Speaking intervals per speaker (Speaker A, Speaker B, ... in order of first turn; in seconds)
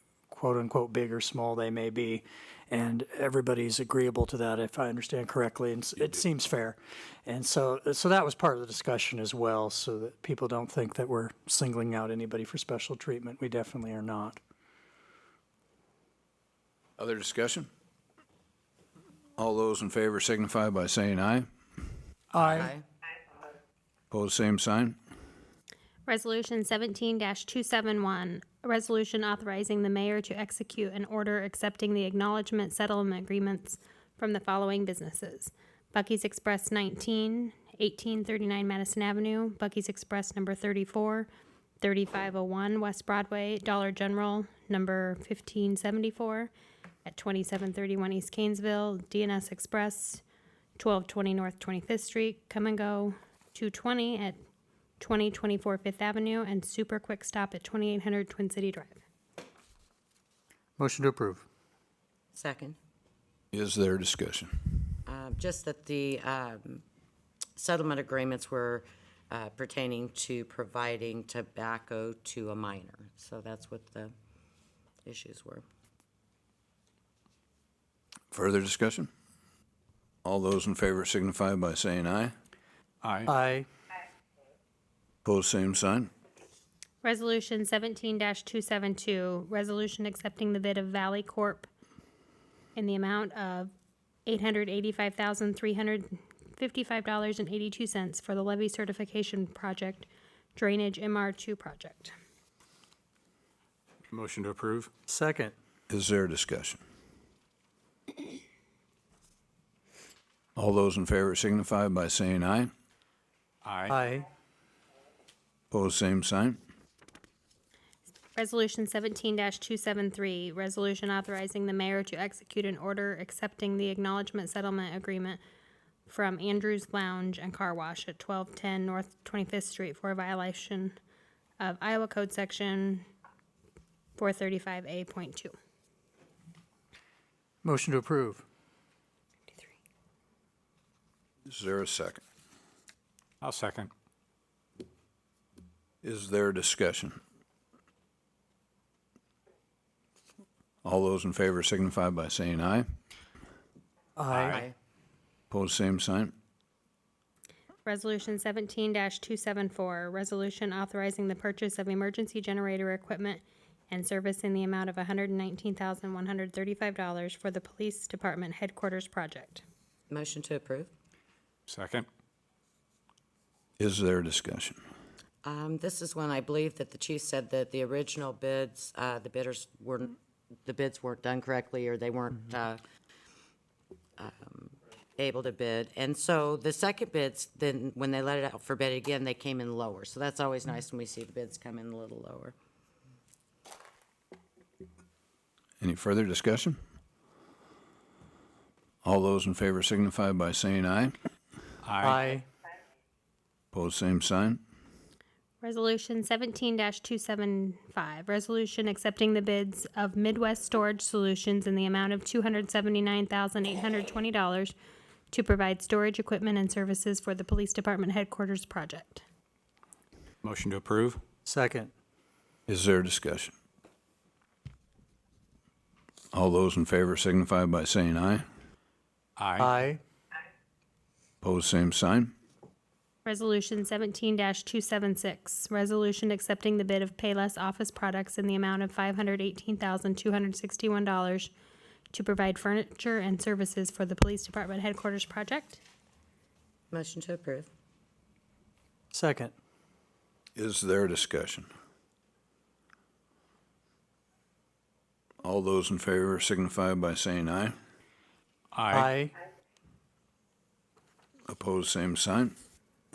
Speaker A: 0.3-14.4, 22.3-22.7, 60.8-61.4, 83.3-83.7, 105.1-105.5, 113.9-114.3, 137.6-138.4, 154.2-154.6, 202.0-202.4, 221.4-221.9, 229.6-230.0, 249.1-249.5, 258.9-259.3
Speaker B: 17.0-17.7, 19.4-21.5, 24.1-25.0, 63.5-64.5, 78.3-79.1, 80.2-82.3, 85.2-86.1, 105.9-106.8, 110.5-112.7, 115.7-116.6, 141.4-142.2, 146.0-147.2, 150.8-152.9, 155.5-156.3, 173.8-174.8, 195.8-196.8, 199.0-201.1, 203.7-204.6, 222.7-223.5, 226.3-228.4, 231.4-232.3, 250.6-251.7, 255.4-257.7, 261.5-262.5
Speaker C: 22.4-22.8, 62.3-62.8, 65.0-66.8, 67.5-74.1, 75.0-75.6, 170.1-170.9, 175.4-182.8, 184.2-192.5, 246.9-247.7
Speaker D: 26.1-41.3, 41.8-46.5, 47.0-50.2, 50.8-54.4, 55.0-59.0, 87.0-91.7, 92.8-93.7, 94.2-102.1, 118.3-125.4, 126.1-131.0, 131.6-133.0, 134.2-135.5, 157.8-169.6, 205.6-214.8, 215.3-219.2, 233.2-241.5, 242.1-245.8
Speaker E: 83.0-83.3, 104.1-104.9, 113.6-114.0, 143.4-143.9, 171.7-172.1, 201.8-202.2, 220.4-221.2, 229.4-229.7, 258.7-259.1